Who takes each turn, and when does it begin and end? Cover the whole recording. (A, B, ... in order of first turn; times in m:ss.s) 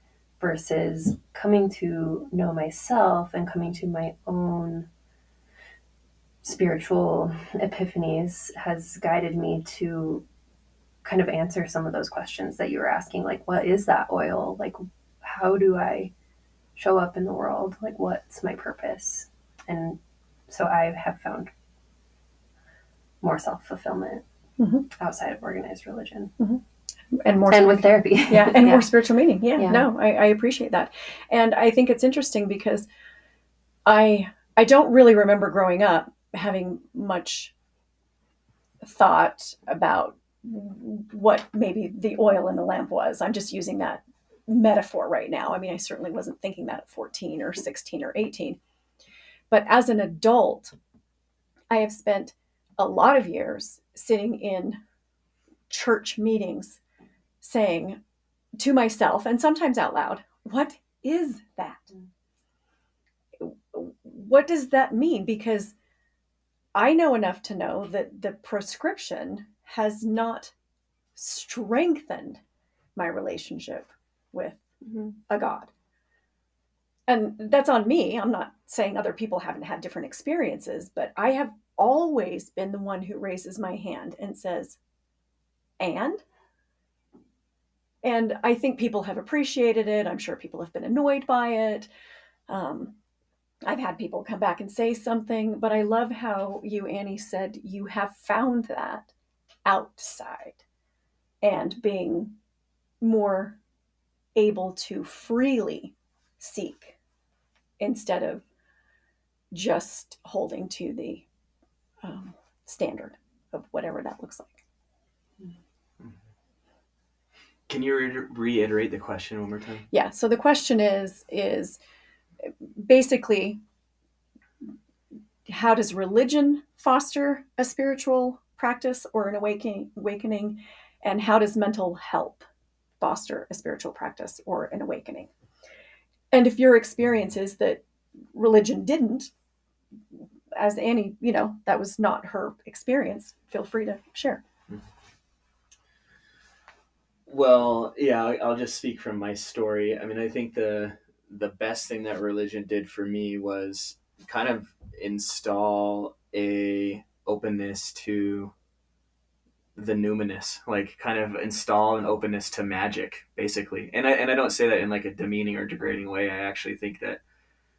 0:00.4-0:04.9 A
0:06.4-0:10.2 A
0:11.0-0:16.1 A
0:16.8-0:20.0 A
0:20.5-0:21.5 A
0:23.2-0:24.2 A
0:24.6-0:24.9 B
0:24.9-0:26.3 A
0:26.4-0:32.8 B
0:27.5-0:28.9 A
0:29.6-0:29.9 A
0:33.8-0:37.5 B
0:38.8-0:48.6 B
0:49.5-0:50.7 B
0:51.7-0:54.8 B
0:55.7-0:56.8 B
0:57.4-0:58.0 B
0:58.6-1:01.9 B
1:03.4-1:05.7 B
1:06.7-1:10.5 B
1:11.2-1:12.4 B
1:13.0-1:14.6 B
1:15.3-1:15.7 B
1:17.1-1:24.8 B
1:25.8-1:26.2 B
1:28.0-1:31.9 B
1:32.5-1:33.0 B
1:33.6-1:39.1 B
1:39.6-1:40.6 B
1:41.4-1:42.4 B
1:43.0-1:43.6 B
1:44.3-1:47.0 B
1:47.8-1:48.4 B
1:49.5-1:51.2 B
1:52.0-1:54.6 B
1:57.7-1:59.8 C
1:59.9-2:01.8 B
2:02.4-2:03.6 B
2:05.5-2:12.4 B
2:13.0-2:15.3 B
2:16.3-2:19.3 B
2:20.6-2:24.4 B
2:27.3-2:38.5 C
2:39.8-2:47.2 C